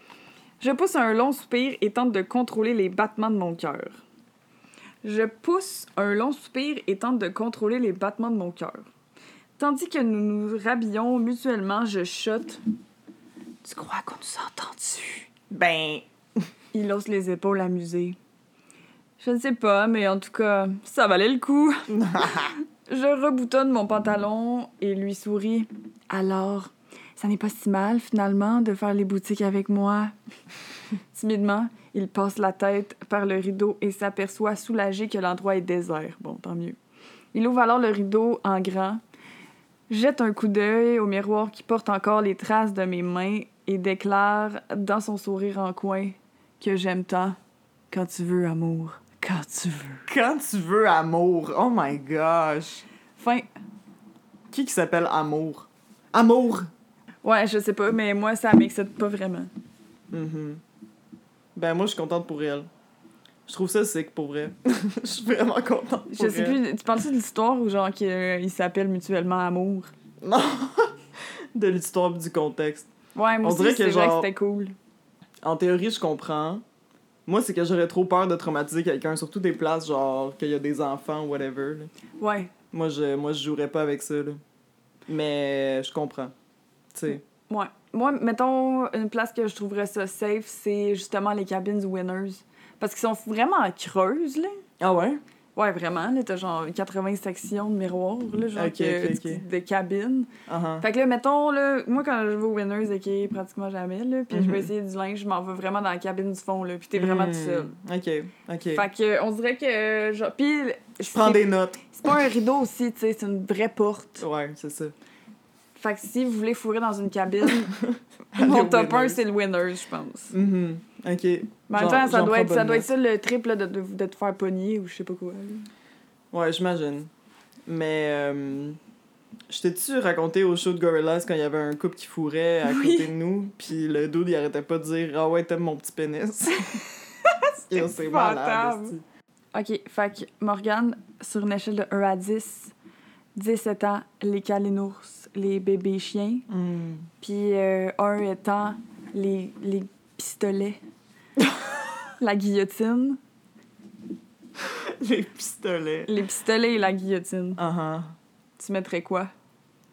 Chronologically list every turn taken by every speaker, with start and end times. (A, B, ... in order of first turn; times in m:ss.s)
0:00.6-0:04.0 A
0:05.0-0:08.9 A
0:09.6-0:12.6 A
0:13.6-0:15.3 A
0:15.5-0:16.0 B
0:16.7-0:18.2 A
0:19.2-0:30.1 A
0:21.9-0:22.5 B
0:31.1-0:36.8 A
0:37.3-0:39.0 A
0:39.9-0:47.4 A
0:47.9-0:50.1 A
0:50.1-0:52.8 B
0:53.2-0:53.5 A
0:54.5-0:56.7 B
0:57.2-0:59.5 A
1:00.1-1:00.6 B
1:01.6-1:02.7 B
1:03.5-1:06.6 B
1:06.1-1:09.9 A
1:10.2-1:10.9 B
1:11.5-1:12.9 B
1:13.1-1:14.7 A
1:13.4-1:14.3 B
1:15.4-1:16.6 B
1:17.2-1:21.9 B
1:22.2-1:22.5 A
1:22.7-1:24.4 B
1:25.1-1:26.3 B
1:26.9-1:27.2 B
1:27.5-1:34.6 A
1:34.8-1:35.2 B
1:35.6-1:47.7 A
1:38.5-1:39.4 B
1:40.5-1:40.8 B
1:44.3-1:44.7 B
1:46.9-1:48.8 B
1:48.7-1:54.2 A
1:51.0-1:51.8 B
1:54.2-1:54.9 B
1:55.8-1:57.8 A
1:57.8-1:59.2 B
1:58.3-2:00.3 A
2:00.3-2:02.9 B
2:01.7-2:05.7 A
2:06.3-2:07.1 B
2:07.6-2:08.8 B
2:09.5-2:16.8 B
2:12.6-2:13.1 A
2:17.2-2:19.0 A
2:17.7-2:19.0 B
2:19.5-2:22.7 A
2:23.3-2:26.5 A
2:26.5-2:27.1 B
2:27.2-2:30.8 A
2:32.2-2:33.2 A
2:34.6-2:36.1 B
2:36.1-2:37.6 A
2:37.6-2:38.1 B
2:38.6-2:39.3 A